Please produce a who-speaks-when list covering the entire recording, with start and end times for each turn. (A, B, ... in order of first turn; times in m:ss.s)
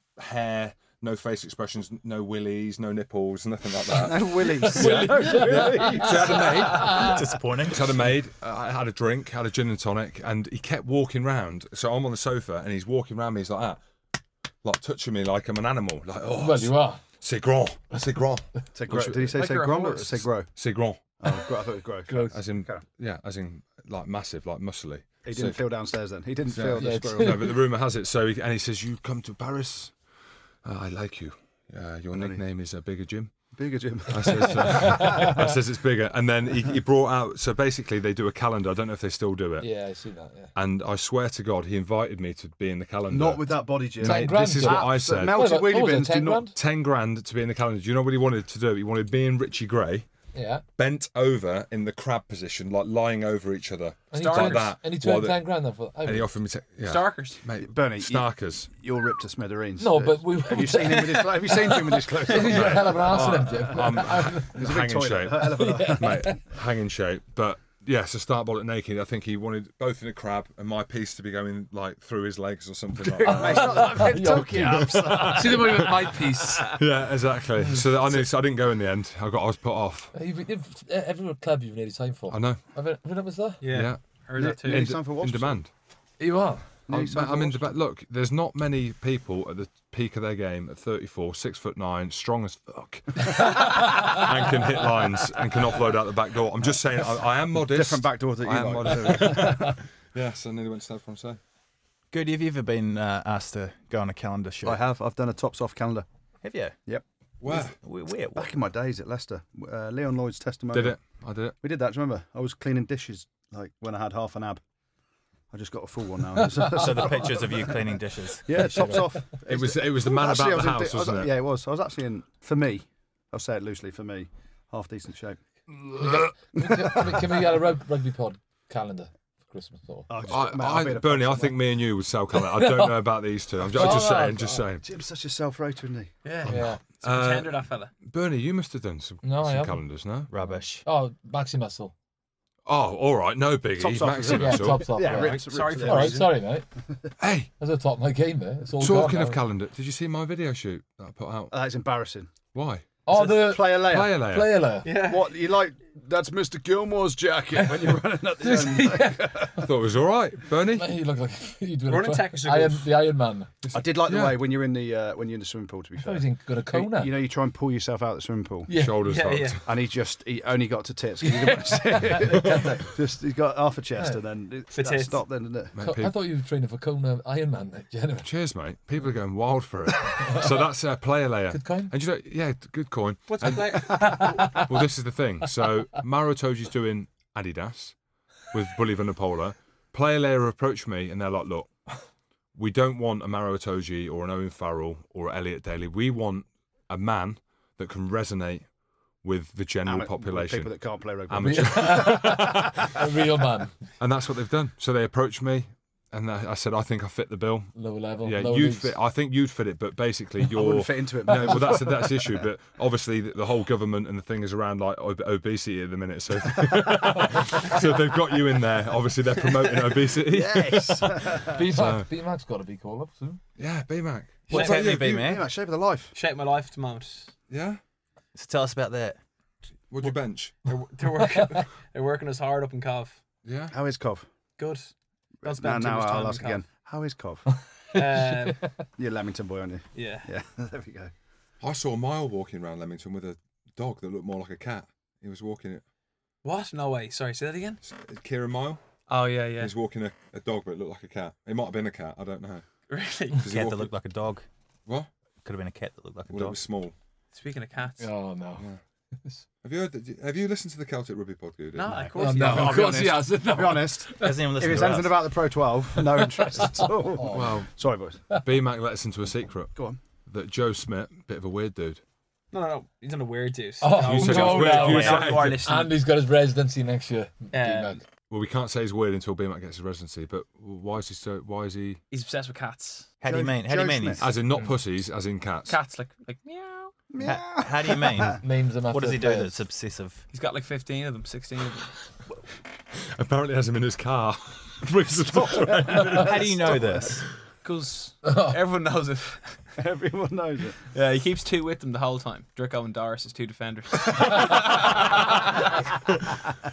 0:00.2-0:07.1 A
0:03.9-0:07.3 B
0:04.4-0:07.2 C
0:06.8-0:08.0 D
0:07.6-0:13.8 A
0:14.6-0:19.4 A
0:16.3-0:17.0 C
0:18.7-0:20.5 B
0:19.1-0:20.2 E
0:20.5-0:21.2 A
0:21.2-0:22.8 B
0:22.1-0:22.4 C
0:22.3-0:25.6 A
0:25.2-0:27.6 B
0:26.5-0:30.0 A
0:26.7-0:27.6 C
0:30.6-0:33.5 A
0:32.1-0:32.4 B
0:33.5-0:35.4 B
0:34.1-0:39.7 A
0:34.6-0:35.3 C
0:39.6-0:40.5 C
0:40.5-0:45.4 A
0:43.1-0:46.5 B
0:44.0-0:46.6 C
0:46.5-0:50.1 A
0:50.3-0:50.6 C
0:50.8-0:58.7 A
0:54.1-0:56.3 C
0:54.1-0:54.7 E
0:56.8-0:57.4 E
0:57.6-1:06.3 B
0:59.8-1:04.6 C
1:02.4-1:20.1 A
1:05.4-1:06.4 C
1:13.2-1:16.7 C
1:13.2-1:16.8 B
1:13.4-1:13.7 E
1:17.6-1:17.8 C
1:20.1-1:23.6 C
1:22.3-1:22.6 A
1:23.6-1:24.9 E
1:23.7-1:25.7 A
1:24.4-1:25.6 B
1:26.2-1:26.7 C
1:26.9-1:27.7 B
1:26.9-1:41.4 A
1:33.3-1:34.3 C
1:37.5-1:39.8 B
1:42.1-1:44.8 D
1:44.6-1:46.0 B
1:46.4-1:46.8 D
1:47.4-1:47.8 A
1:47.5-1:48.5 D
1:48.3-1:51.0 B
1:50.7-1:51.6 A
1:51.6-1:54.6 B
1:55.5-2:05.4 B
1:56.6-1:59.0 D
1:58.6-1:59.0 C
1:59.4-2:01.3 A
2:05.9-2:07.4 B
2:06.0-2:10.1 C
2:10.1-2:11.6 B
2:10.3-2:14.8 A
2:12.3-2:13.1 C
2:13.7-2:14.6 C
2:14.8-2:16.1 B
2:16.2-2:17.9 E
2:16.4-2:20.3 A
2:16.4-2:16.8 C
2:19.2-2:19.8 C
2:20.3-2:20.8 D
2:20.4-2:21.9 C
2:22.6-2:25.0 A
2:23.8-2:26.3 B
2:24.2-2:26.6 C
2:25.0-2:26.3 E
2:27.2-2:27.5 A
2:27.6-2:29.4 C
2:28.8-2:31.5 A
2:31.5-2:32.3 B
2:32.5-2:32.9 A
2:33.0-2:34.9 C
2:33.1-2:34.2 B
2:33.8-2:34.6 A
2:34.8-2:35.3 E
2:35.0-2:39.6 B
2:38.4-2:39.7 C
2:39.6-2:40.9 A
2:40.7-2:43.5 C
2:41.9-2:42.9 E
2:43.6-2:44.4 A
2:43.7-2:48.7 B
2:46.0-2:47.1 C
2:48.7-2:49.2 C
2:48.7-2:49.6 A
2:49.0-2:49.6 E
2:49.6-2:55.7 B
2:51.2-2:52.9 C
2:54.7-2:55.2 E
2:55.7-2:56.2 A
2:55.8-2:58.3 C
2:58.2-3:08.0 A
3:00.1-3:00.6 C
3:01.5-3:01.9 C
3:03.3-3:04.6 E
3:03.8-3:04.7 C
3:08.5-3:11.7 A
3:12.5-3:18.7 A
3:19.2-3:20.7 A
3:19.8-3:22.3 B
3:21.3-3:23.0 A
3:21.4-3:23.8 C
3:24.0-3:42.1 A
3:27.7-3:28.9 C
3:30.5-3:32.5 B
3:40.1-3:41.6 B
3:41.5-3:43.4 C
3:43.6-3:45.3 A
3:44.5-3:44.9 E
3:44.5-3:45.4 D
3:44.6-3:46.1 B
3:46.1-3:47.3 E
3:47.5-3:47.8 A
3:48.3-3:49.2 D
3:49.9-3:50.6 A
3:50.0-3:53.2 E
3:51.1-3:51.5 C
3:53.4-3:53.7 A
3:53.7-3:54.3 B
3:54.6-3:54.9 E
3:55.4-3:56.6 E
3:55.4-3:57.5 B
3:57.9-3:58.7 E
3:57.9-3:58.6 C
3:59.0-4:01.1 B
3:59.9-4:00.3 E
4:01.6-4:05.8 A
4:06.4-4:07.8 E
4:07.8-4:08.8 A
4:09.1-4:09.7 E
4:09.6-4:12.6 A
4:12.9-4:13.5 E
4:13.4-4:13.9 A
4:13.4-4:14.4 D
4:15.4-4:16.6 D
4:16.3-4:16.9 A
4:17.3-4:18.1 E
4:18.0-4:18.7 C
4:19.6-4:22.0 A
4:21.7-4:23.0 E
4:21.9-4:28.2 B
4:22.1-4:24.5 C
4:24.2-4:25.2 D
4:25.9-4:27.7 C
4:27.3-4:27.7 A
4:28.3-4:32.0 A
4:32.5-4:35.9 E
4:33.8-4:38.0 C
4:33.9-4:35.7 A
4:37.5-4:38.0 E
4:38.3-4:42.0 A
4:42.1-4:43.1 E
4:43.2-4:44.3 D
4:43.2-4:44.3 B
4:44.2-4:45.8 A
4:45.7-4:46.9 E
4:47.1-4:48.4 B
4:47.2-4:50.2 D
4:48.4-4:49.6 C
4:50.3-4:52.0 E
4:52.9-4:56.8 A
4:55.3-4:57.2 B
4:56.1-4:57.2 D
4:57.6-4:59.6 E
4:58.2-4:58.6 C
4:59.8-5:00.8 B
5:00.9-5:06.0 E